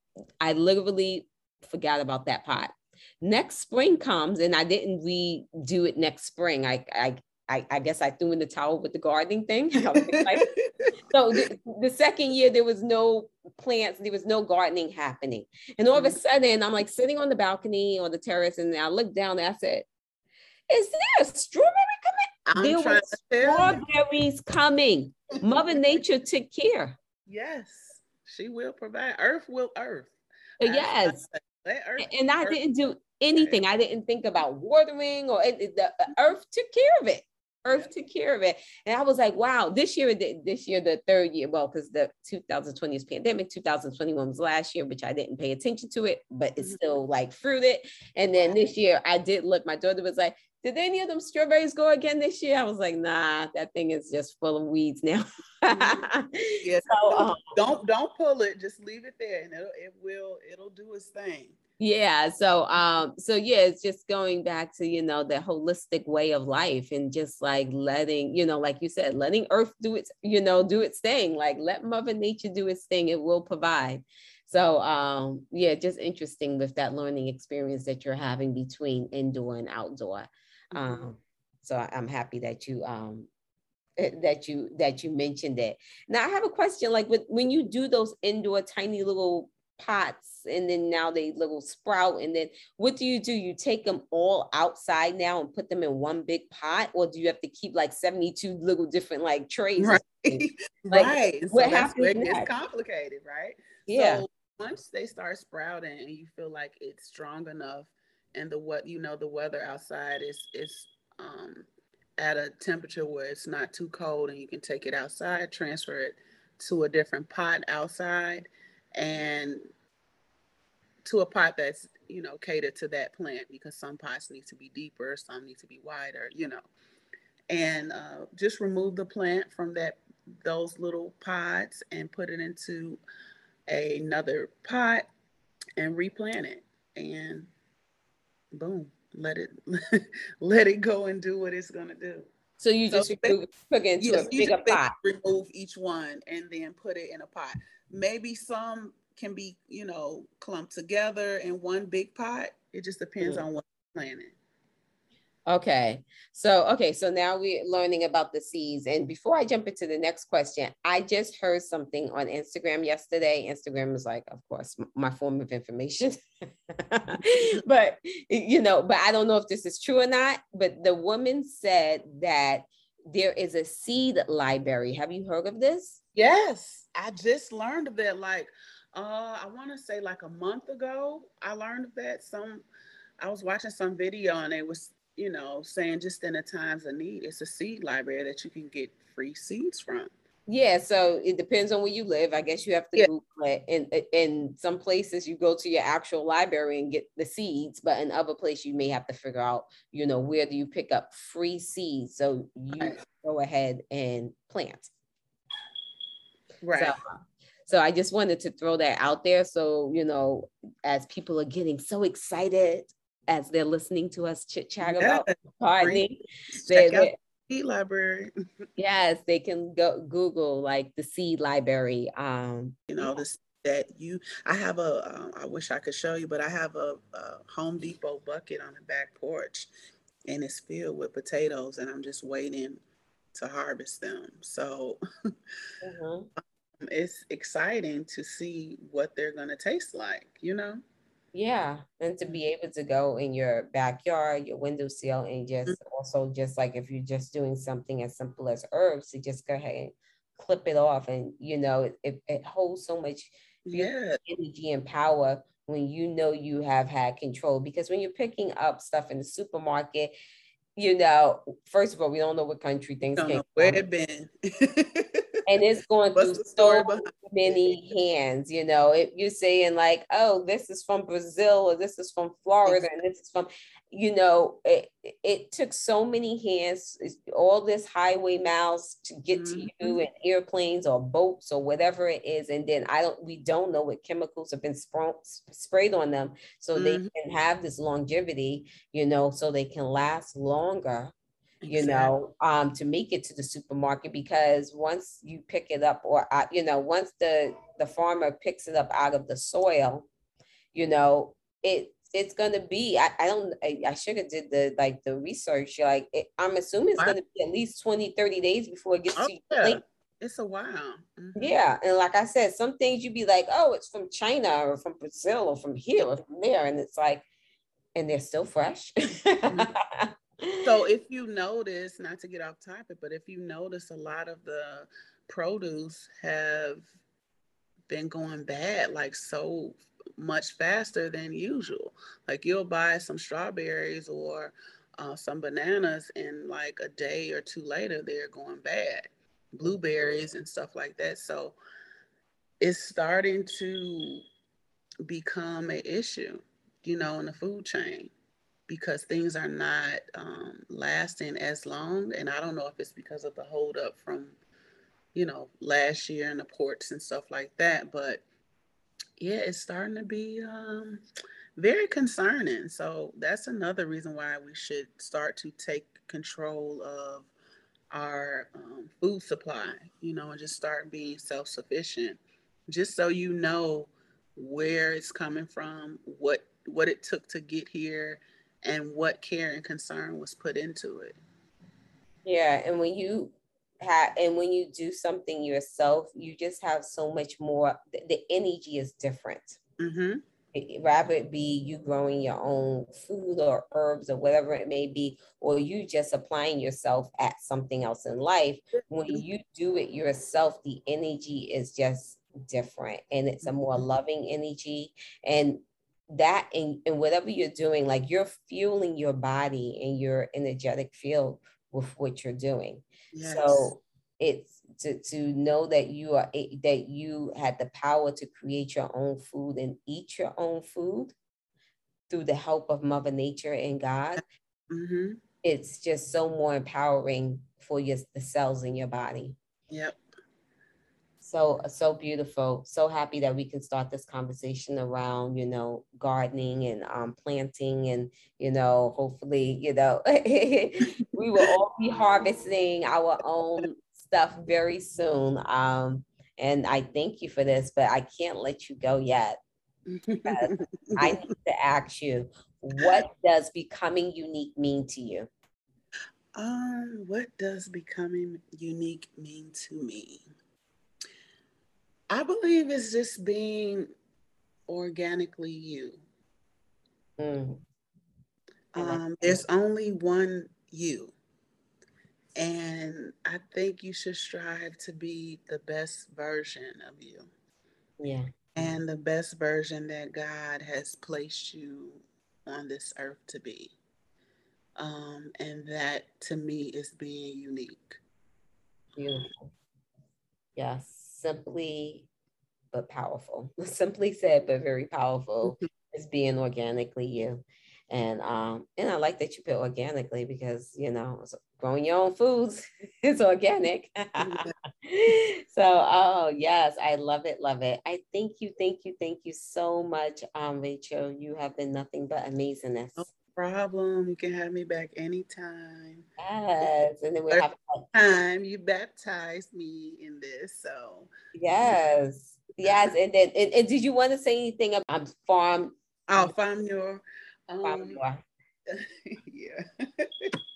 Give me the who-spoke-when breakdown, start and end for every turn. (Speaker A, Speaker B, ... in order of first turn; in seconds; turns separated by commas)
Speaker A: 0.4-10.5, Speaker B: 10.0-11.4, Speaker A: 11.1-19.9, Speaker A: 20.7-26.9, Speaker B: 22.5-23.8, Speaker B: 25.4-26.0, Speaker B: 27.3-32.6, Speaker A: 30.6-31.2, Speaker A: 32.0-57.5, Speaker B: 33.3-33.6, Speaker B: 55.7-56.0, Speaker B: 56.6-61.6, Speaker A: 61.8-83.3, Speaker B: 80.7-81.0, Speaker A: 84.0-102.5, Speaker B: 99.8-111.7, Speaker A: 103.9-104.2, Speaker B: 112.2-119.7, Speaker B: 121.0-126.6, Speaker B: 127.5-133.0, Speaker B: 133.7-135.1, Speaker B: 135.8-137.5, Speaker B: 138.6-142.3, Speaker A: 142.6-144.9, Speaker B: 142.9-143.4, Speaker B: 144.0-154.4, Speaker A: 155.5-176.0, Speaker B: 176.2-182.7, Speaker B: 183.2-190.1, Speaker A: 190.5-204.9, Speaker B: 206.6-206.9, Speaker A: 207.7-217.1, Speaker B: 214.8-216.1, Speaker B: 216.6-218.3, Speaker A: 218.8-223.2, Speaker B: 222.9-229.7, Speaker B: 230.3-232.8, Speaker B: 233.3-235.0, Speaker A: 235.8-236.3, Speaker B: 236.8-240.8, Speaker A: 241.3-260.1, Speaker B: 253.7-254.2, Speaker A: 260.8-263.8, Speaker B: 263.2-265.3, Speaker A: 265.5-291.1, Speaker B: 266.1-267.8, Speaker B: 279.3-280.0, Speaker B: 286.8-287.1, Speaker B: 291.6-292.1, Speaker A: 291.7-300.1, Speaker A: 300.7-309.8, Speaker B: 309.2-311.6, Speaker A: 311.4-317.2, Speaker A: 318.0-320.6, Speaker B: 320.6-326.9, Speaker B: 327.9-341.6, Speaker B: 342.6-344.2, Speaker B: 345.1-348.1, Speaker B: 348.7-354.4, Speaker B: 355.1-358.2, Speaker B: 359.2-361.0, Speaker B: 361.6-367.3, Speaker B: 367.9-381.2, Speaker A: 382.2-389.6, Speaker B: 389.8-390.2, Speaker A: 390.5-421.1, Speaker B: 403.4-403.8, Speaker B: 413.1-413.7, Speaker A: 422.1-424.2, Speaker B: 424.7-425.2, Speaker A: 425.4-429.4, Speaker B: 429.7-430.0, Speaker A: 431.2-449.4, Speaker B: 449.9-451.1, Speaker A: 450.3-455.3, Speaker B: 456.4-460.3, Speaker B: 462.1-463.9, Speaker B: 464.7-466.0, Speaker A: 467.2-467.6, Speaker B: 468.8-471.1, Speaker A: 468.8-469.4, Speaker B: 472.4-477.3, Speaker A: 478.0-478.3, Speaker B: 478.6-483.8, Speaker B: 484.8-488.0, Speaker A: 489.0-489.5, Speaker A: 490.6-492.1, Speaker A: 492.7-513.1, Speaker B: 504.2-504.5, Speaker B: 513.0-516.0, Speaker A: 516.2-517.9, Speaker B: 517.3-521.1, Speaker A: 521.4-526.3, Speaker B: 522.6-522.9, Speaker B: 526.1-528.0, Speaker A: 527.6-528.2, Speaker B: 528.7-530.3